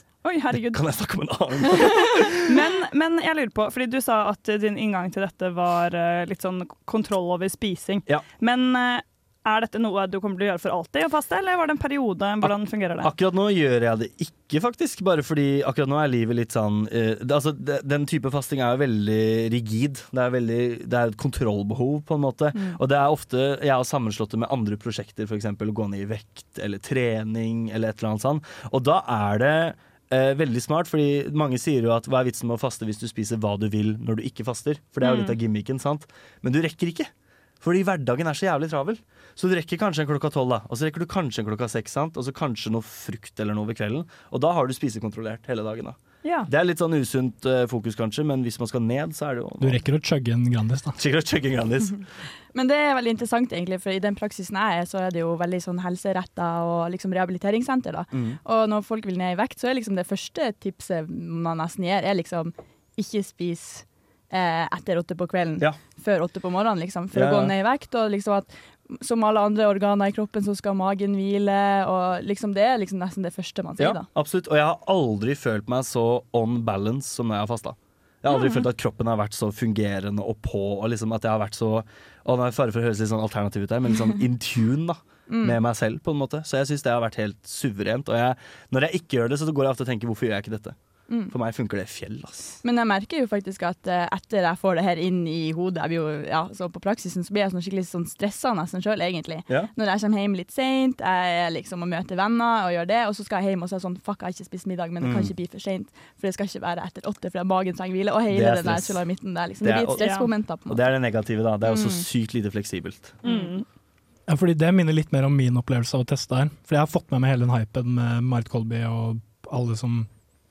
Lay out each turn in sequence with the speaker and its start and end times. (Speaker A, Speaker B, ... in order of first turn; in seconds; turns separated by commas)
Speaker A: 0.2-0.8, Speaker B: 0.5-2.5, Speaker A: 2.4-13.1, Speaker B: 12.4-37.1, Speaker A: 35.0-35.3, Speaker B: 37.6-49.8, Speaker A: 46.2-46.5, Speaker C: 49.6-51.0, Speaker B: 51.0-52.0, Speaker D: 52.5-74.0, Speaker B: 58.1-58.4, Speaker B: 67.1-67.5, Speaker B: 73.8-90.8, Speaker D: 85.3-85.6, Speaker B: 91.3-92.6, Speaker D: 92.6-110.8, Speaker B: 105.0-105.3, Speaker B: 108.3-109.0, Speaker B: 109.6-110.1, Speaker A: 110.0-110.3, Speaker B: 110.7-113.2, Speaker D: 111.7-112.0, Speaker A: 113.2-113.7, Speaker D: 113.2-113.5, Speaker C: 114.3-120.1